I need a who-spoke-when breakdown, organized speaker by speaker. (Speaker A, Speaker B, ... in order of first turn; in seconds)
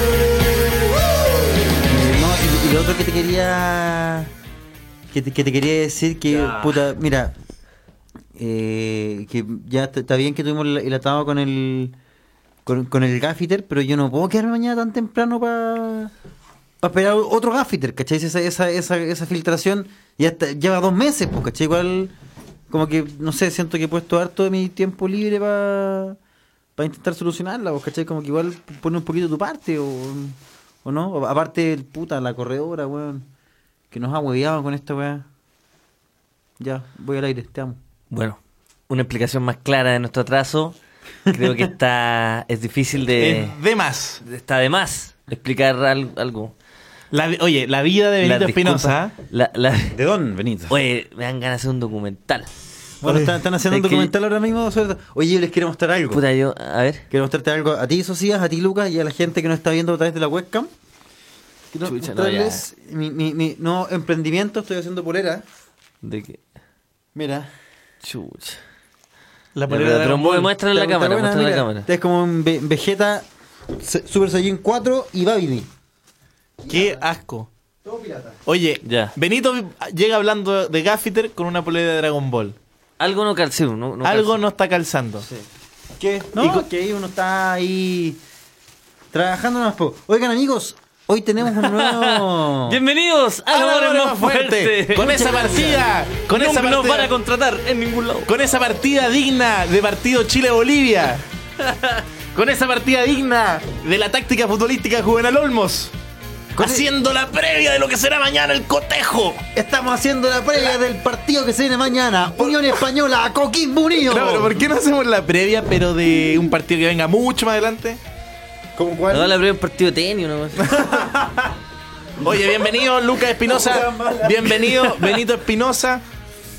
Speaker A: 1.8-4.3, 5.1-7.3, 8.4-11.9, 12.7-16.1, 16.8-22.1, 22.7-26.2, 26.8-33.3, 33.9-35.2, 36.6-37.8, 49.9-50.8, 53.0-56.2, 57.1-60.7, 61.7-65.4, 67.1-67.5, 70.7-75.7, 76.6-77.0, 77.8-78.4, 86.0-88.2, 89.1-92.8, 95.0-95.9, 106.5-106.9, 109.5-114.5, 118.8-119.4, 120.8-121.4, 123.4-125.2
Speaker B: 38.1-38.4, 38.9-40.8, 41.3-43.5, 44.2-46.5, 48.2-50.0, 50.7-52.5, 53.7-54.1, 56.1-57.0, 61.8-62.6, 66.0-66.4, 68.0-68.6, 69.7-71.9, 78.8-79.1, 83.0-84.4, 91.5-95.2, 96.3-98.3, 101.6-102.0, 119.1-120.8
Speaker C: 43.2-44.2, 47.1-49.1, 53.0-53.3, 69.5-70.5, 76.7-77.5, 78.5-82.5, 84.0-85.2, 93.5-97.1, 98.3-101.2, 102.3-105.9, 106.6-109.4, 114.1-118.0, 120.7-121.0, 122.2-126.0